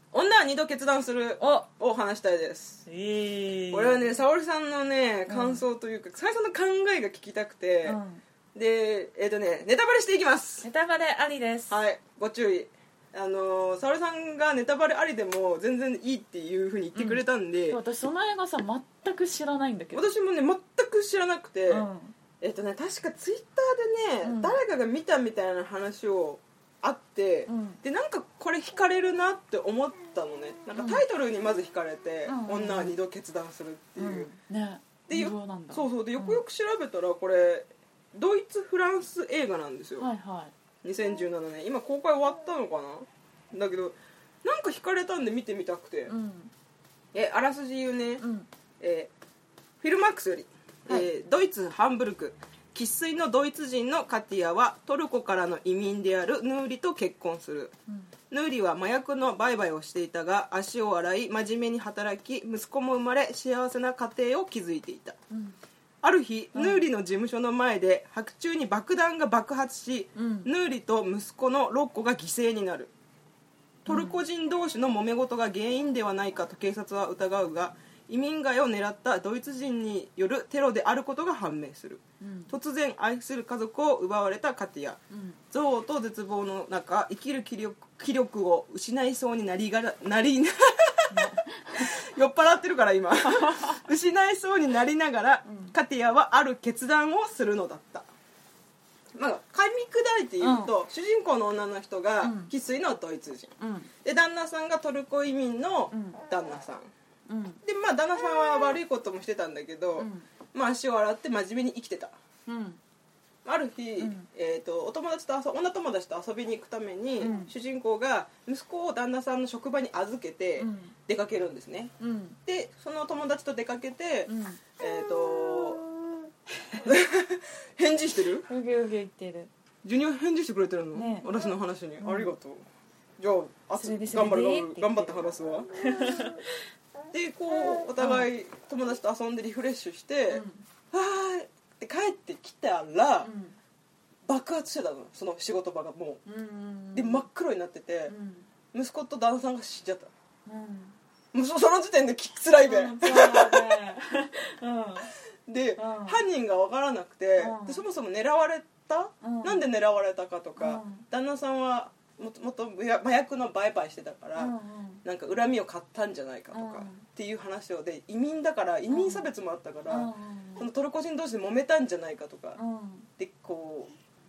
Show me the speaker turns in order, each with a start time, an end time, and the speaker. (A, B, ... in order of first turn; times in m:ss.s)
0:00.1-0:02.8 A
0:01.4-0:01.7 B
0:02.8-0:04.2 B
0:03.7-0:08.0 A
0:05.3-0:05.6 B
0:07.8-0:08.2 B
0:08.5-0:10.6 A
0:10.6-0:11.8 B
0:11.7-0:17.8 A
0:16.9-0:20.1 B
0:19.9-0:21.9 A
0:21.7-0:22.1 B
0:22.4-0:34.3 A
0:24.2-0:24.6 B
0:27.5-0:27.8 B
0:30.8-0:31.0 B
0:32.2-0:33.0 B
0:34.0-0:36.4 B
0:35.1-0:40.1 A
0:40.0-0:40.5 B
0:40.8-0:46.1 A
0:46.1-0:46.5 B
0:47.1-0:48.2 A
0:48.2-0:48.5 B
0:48.8-0:49.1 A
0:49.8-0:57.7 A
0:57.9-0:58.1 B
0:58.3-1:05.2 A
1:05.3-1:05.6 B
1:06.0-1:12.9 A
1:06.5-1:06.9 B
1:10.2-1:10.5 B
1:13.8-1:25.0 A
1:13.9-1:14.2 B
1:22.2-1:22.5 B
1:25.1-1:25.4 B
1:25.5-1:31.2 A
1:31.1-1:32.0 B
1:31.7-1:38.1 A
1:33.2-1:33.8 B
1:35.4-1:35.7 B
1:39.2-1:46.9 A
1:40.4-1:40.7 B
1:42.2-1:42.5 B
1:43.6-1:43.9 B
1:45.9-1:46.2 B
1:47.3-1:47.6 B
1:47.6-1:52.1 A
1:50.0-1:50.2 B
1:52.5-1:52.8 B
1:53.4-2:01.9 A
1:54.0-1:54.3 B
1:57.2-1:57.5 B
2:00.6-2:00.9 B
2:02.0-2:02.4 B
2:02.4-2:05.9 A
2:04.2-2:04.6 B
2:06.8-2:08.5 A
2:08.5-2:09.5 B
2:09.8-2:12.6 A
2:10.9-2:11.3 B
2:12.0-2:12.4 B
2:13.2-2:15.7 A
2:13.8-2:16.5 B
2:17.1-2:23.3 A
2:18.0-2:18.3 B
2:20.3-2:20.6 B
2:23.2-2:23.6 B
2:24.2-2:26.2 A
2:26.2-2:27.3 B
2:26.9-2:28.1 A
2:28.1-2:28.5 B
2:28.7-2:30.1 A
2:30.4-2:31.0 B
2:31.3-2:33.6 A
2:32.6-2:35.1 B
2:35.4-2:44.5 A
2:35.8-2:36.2 B
2:37.4-2:37.8 B
2:39.2-2:39.6 B
2:40.6-2:41.0 B
2:44.4-2:45.0 B
2:45.0-2:52.6 A
2:46.5-2:47.0 B
2:48.9-2:49.3 B
2:49.9-2:50.6 B
2:52.6-2:53.1 B
2:53.2-2:53.9 A